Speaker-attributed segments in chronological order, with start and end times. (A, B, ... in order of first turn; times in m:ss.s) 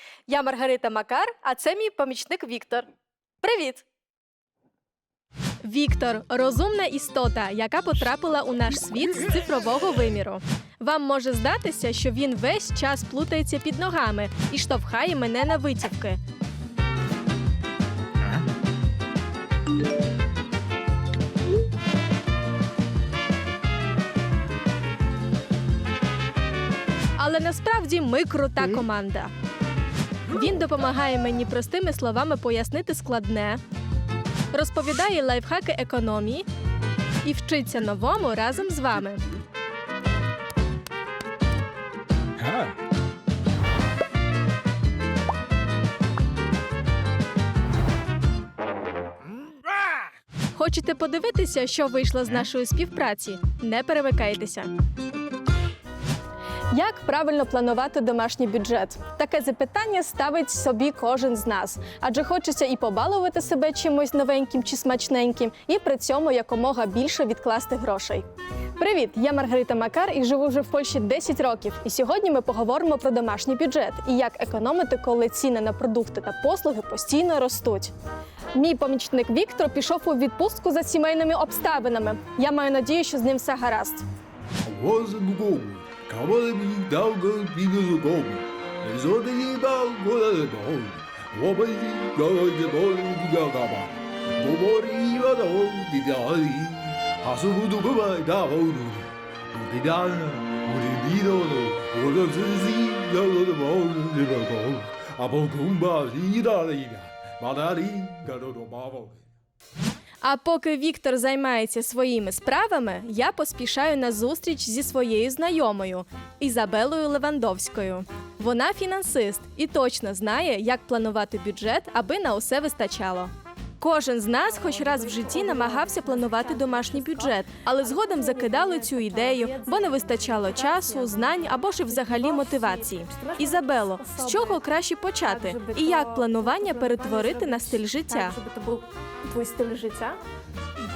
0:00.3-0:02.9 A
0:03.4-0:03.8 A
0:05.6-0:16.2 A
0:27.2-0:29.3 A
0:30.3-0:33.6 A
0:34.5-0:36.5 A
0:37.2-0:39.2 A
0:42.4-0:42.7 B
0:50.5-0:54.7 A
0:56.7-1:17.9 A
1:18.6-1:24.0 A
1:24.6-1:49.2 B
1:50.2-2:18.4 A
2:04.3-2:14.6 C
2:15.2-2:20.2 C